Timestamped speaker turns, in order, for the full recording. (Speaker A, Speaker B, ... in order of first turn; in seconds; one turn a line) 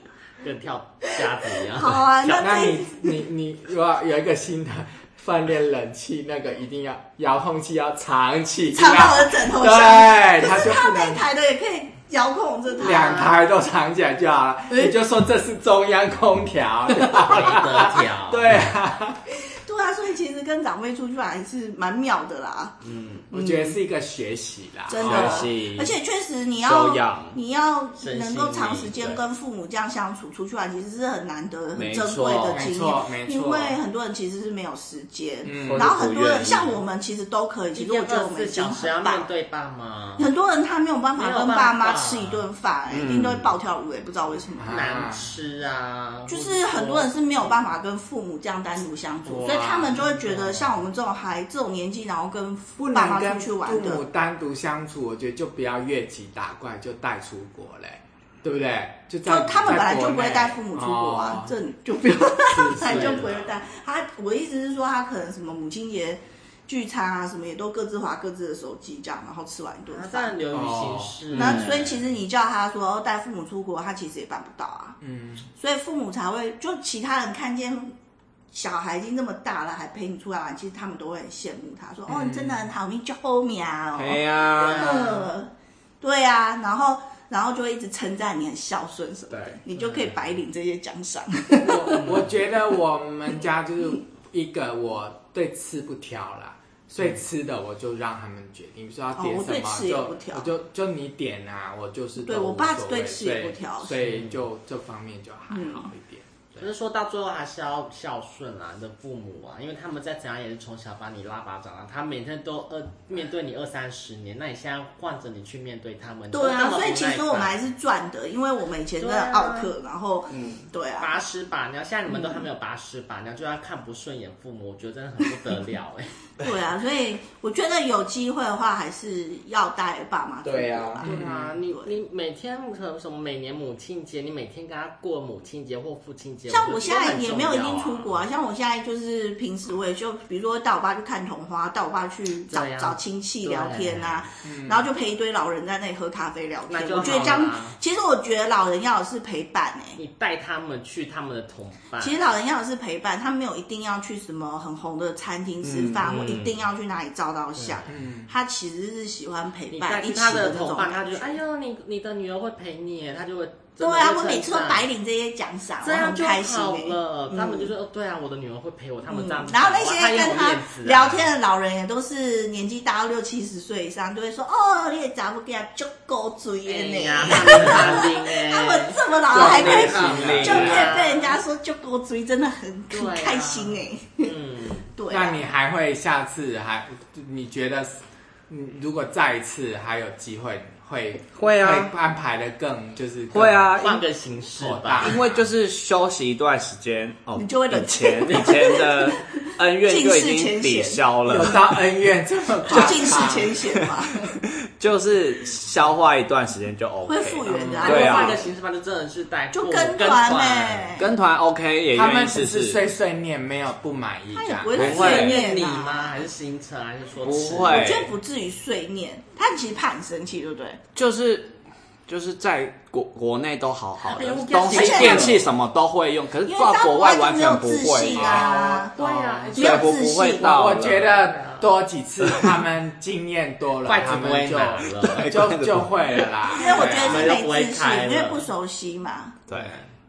Speaker A: 0.4-2.6
Speaker B: 1.7-3.1
Speaker C: 2.4-11.2
Speaker B: 8.7-13.2
Speaker A: 12.8-13.3
Speaker C: 12.8-19.2
Speaker A: 17.0-18.7
Speaker B: 19.6-22.8
Speaker A: 22.8-23.3
Speaker B: 23.3-23.8
Speaker C: 23.3-25.5
Speaker B: 24.9-39.3
Speaker D: 25.0-25.9
Speaker D: 26.6-27.4
Speaker A: 28.0-29.2
Speaker D: 31.7-32.6
Speaker C: 32.5-33.8
Speaker C: 35.4-35.9
Speaker D: 35.6-36.8
Speaker A: 37.7-40.3
Speaker B: 40.2-44.7
Speaker A: 41.1-42.4
Speaker D: 42.9-43.6
Speaker C: 44.6-45.3
Speaker A: 44.7-47.1
Speaker B: 46.3-54.0
Speaker C: 49.2-50.7
Speaker C: 52.8-61.5
Speaker B: 59.2-70.3
Speaker A: 62.6-63.5
Speaker A: 69.9-71.8
Speaker C: 70.5-71.2
Speaker D: 71.3-71.9
Speaker B: 71.3-75.0
Speaker C: 75.0-75.5
Speaker B: 75.5-77.9
Speaker B: 78.5-85.5
Speaker C: 82.1-82.7
Speaker D: 83.9-85.1
Speaker A: 84.5-85.3
Speaker B: 86.0-92.2
Speaker D: 89.3-89.6
Speaker A: 89.7-90.2
Speaker C: 91.6-106.7
Speaker B: 99.1-100.5
Speaker B: 102.2-104.0
Speaker A: 104.0-104.4
Speaker B: 105.5-105.9
Speaker A: 106.6-117.5
Speaker B: 116.3-121.1
Speaker A: 119.0-119.7
Speaker D: 120.3-120.7
Speaker A: 121.0-126.1
Speaker B: 126.4-131.9
Speaker D: 130.4-131.0
Speaker C: 131.0-131.6
Speaker A: 131.0-138.2
Speaker B: 136.5-150.0
Speaker A: 142.5-144.3
Speaker C: 144.4-144.9
Speaker A: 146.7-147.8
Speaker A: 150.0-152.2
Speaker B: 152.0-161.3
Speaker D: 155.6-156.5
Speaker A: 156.0-156.6
Speaker A: 157.6-157.8
Speaker C: 157.9-158.3
Speaker A: 159.7-164.8
Speaker B: 163.8-167.7
Speaker A: 165.8-171.3
Speaker B: 169.1-184.4
Speaker A: 176.7-181.4
Speaker D: 179.3-180.9
Speaker C: 179.3-180.8
Speaker A: 182.9-184.9
Speaker B: 184.9-185.4
Speaker C: 185.1-193.7
Speaker D: 191.3-191.9
Speaker D: 193.3-194.0
Speaker A: 193.8-195.2
Speaker C: 194.6-195.2
Speaker D: 195.0-201.8
Speaker B: 197.4-201.0
Speaker C: 201.2-203.5
Speaker B: 202.7-204.4
Speaker D: 202.7-208.5
Speaker B: 207.1-208.4
Speaker C: 207.5-208.1
Speaker A: 207.7-210.9
Speaker B: 209.5-211.1
Speaker D: 211.0-212.8
Speaker C: 211.9-214.9
Speaker B: 214.3-216.2
Speaker D: 214.8-215.4
Speaker A: 214.8-218.0
Speaker D: 217.2-218.1
Speaker B: 217.7-220.8
Speaker D: 220.9-221.5
Speaker D: 222.1-231.1
Speaker A: 224.0-225.4
Speaker B: 224.7-225.4
Speaker B: 226.4-228.9
Speaker C: 228.1-228.9
Speaker A: 228.9-230.0
Speaker B: 229.5-230.5
Speaker C: 230.3-237.3
Speaker A: 230.9-231.7
Speaker D: 232.2-232.6
Speaker A: 233.8-235.5
Speaker D: 234.8-235.9
Speaker A: 236.4-238.5
Speaker B: 236.5-239.4
Speaker D: 239.5-239.8
Speaker A: 239.5-239.9